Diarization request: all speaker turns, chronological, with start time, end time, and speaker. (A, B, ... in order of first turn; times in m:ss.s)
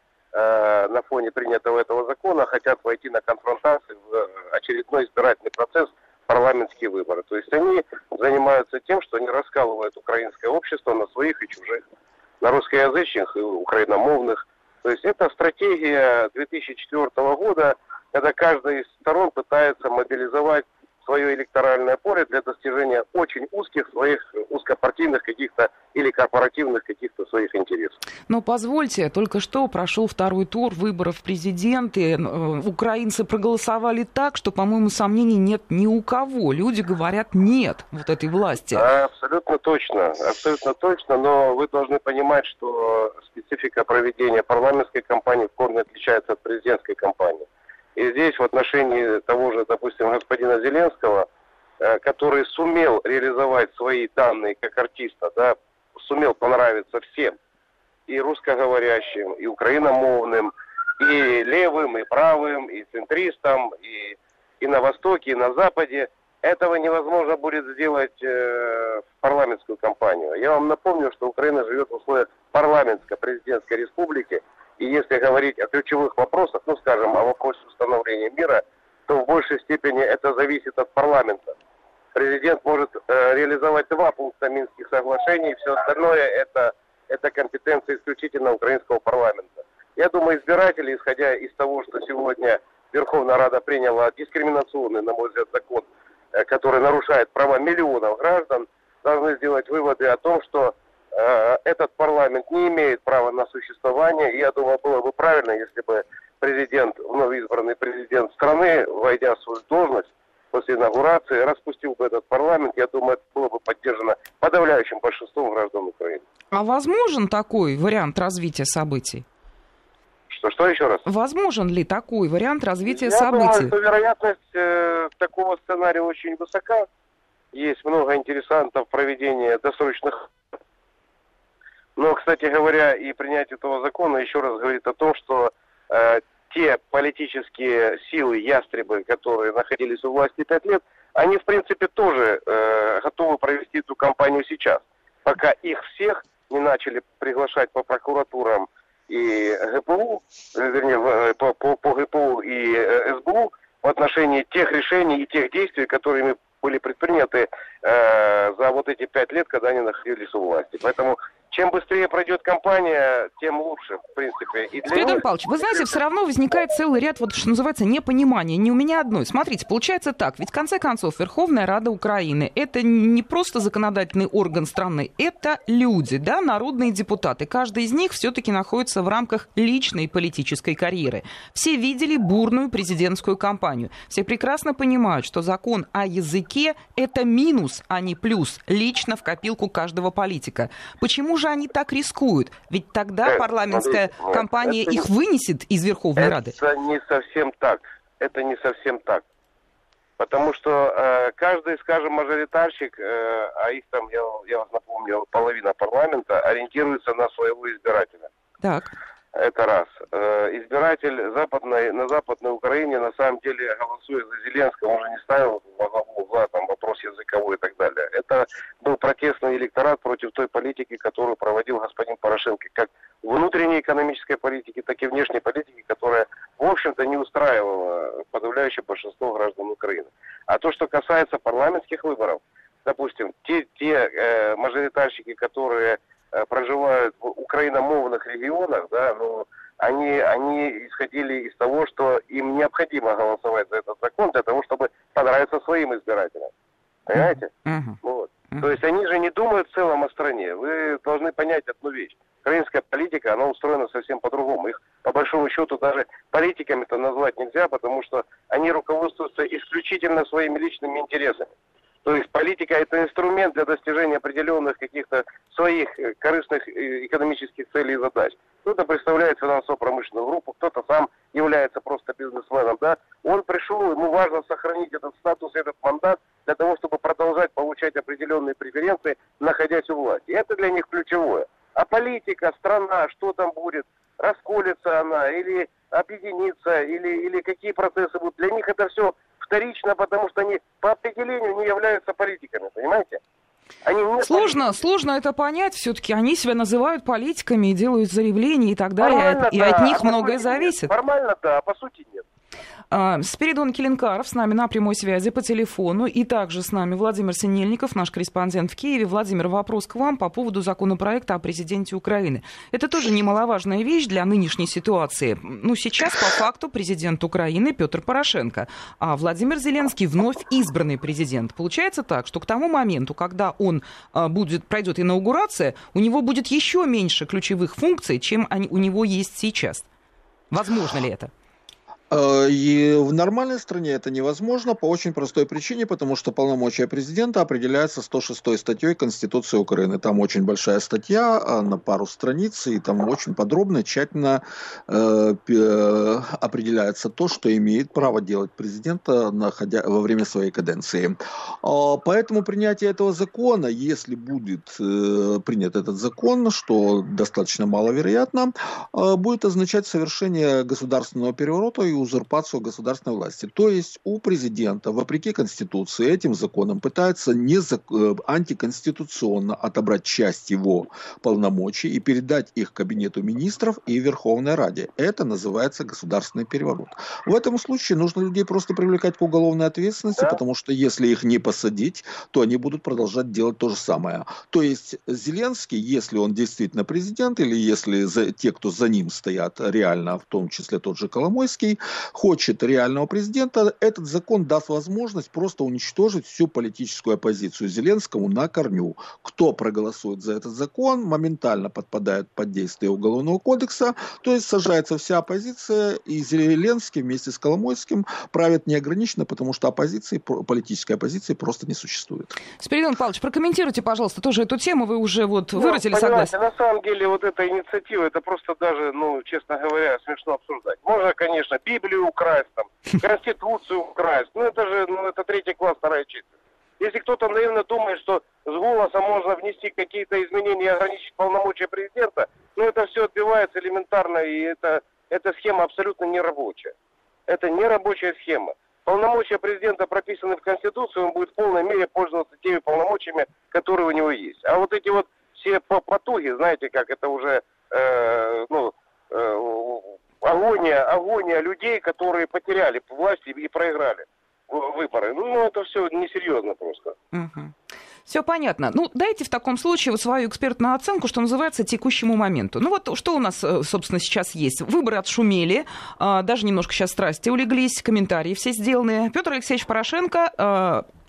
0:00.3-0:11.8 A
0:12.4-0:28.0 A
0:28.3-0:38.8 B
0:38.7-0:51.3 A
0:51.8-0:57.4 A
0:58.1-1:21.5 A
1:22.1-1:56.2 A
1:56.5-1:59.2 B
2:00.3-2:01.0 A
2:01.0-2:03.7 B
2:02.9-2:06.9 A
2:07.5-2:10.3 A
2:12.0-2:45.2 A
2:44.8-3:16.5 B
3:13.2-3:15.0 A
3:16.2-3:19.2 A
3:20.2-3:28.3 A
3:28.6-3:28.9 B
3:29.3-4:06.5 A
4:07.1-4:07.5 A
4:07.1-4:08.0 B
4:08.0-4:21.5 A
4:22.0-4:53.2 A
4:53.8-4:54.5 A
4:54.2-5:00.9 B
4:59.0-5:02.2 A
5:02.9-5:29.8 B
5:30.5-5:31.3 B
5:32.1-6:52.4 C
6:52.6-6:56.3 B
6:55.6-7:16.7 A
7:17.3-7:37.0 A
7:37.1-7:37.5 B
7:38.0-7:50.8 B